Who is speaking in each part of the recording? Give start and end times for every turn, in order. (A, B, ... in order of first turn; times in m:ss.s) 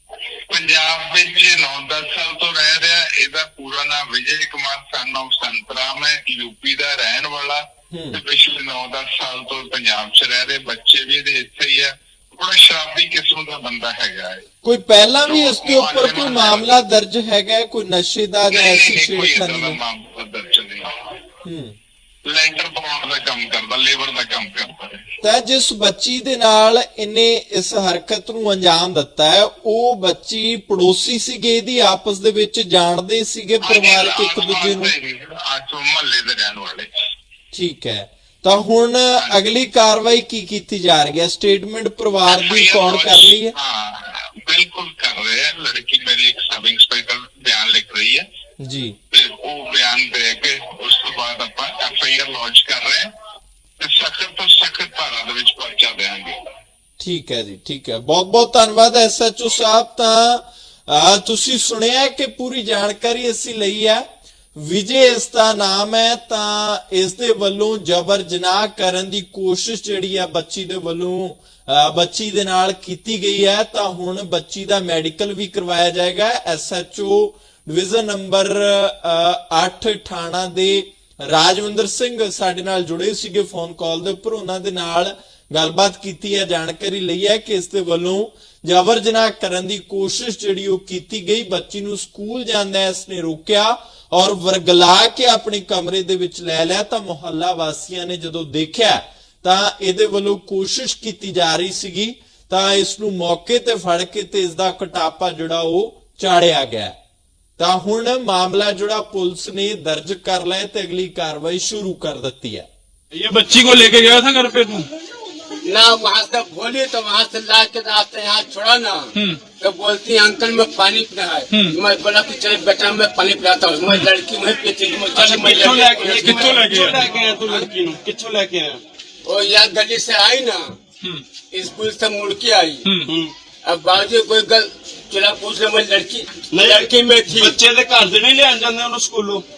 0:00.5-0:14.5 A
0:07.9-0:08.2 B
0:14.6-0:19.8 B
0:15.3-0:16.7 A
0:18.5-0:21.1 A
0:21.4-0:21.8 B
0:22.2-0:25.1 A
0:25.2-0:34.9 B
0:33.6-0:36.9 A
0:37.5-0:43.5 B
0:42.3-0:48.3 A
0:48.6-0:49.0 B
0:49.1-0:53.1 A
0:53.8-0:56.5 A
0:57.0-1:47.0 B
1:47.6-1:52.7 B
1:53.1-1:54.9 C
1:55.6-2:06.6 D
1:59.1-1:59.4 C
2:05.1-2:08.8 E
2:06.1-2:07.0 C
2:09.2-2:10.8 D
2:11.5-2:12.8 D
2:12.8-2:13.1 C
2:13.1-2:13.3 E
2:13.6-2:17.6 D
2:16.5-2:19.4 E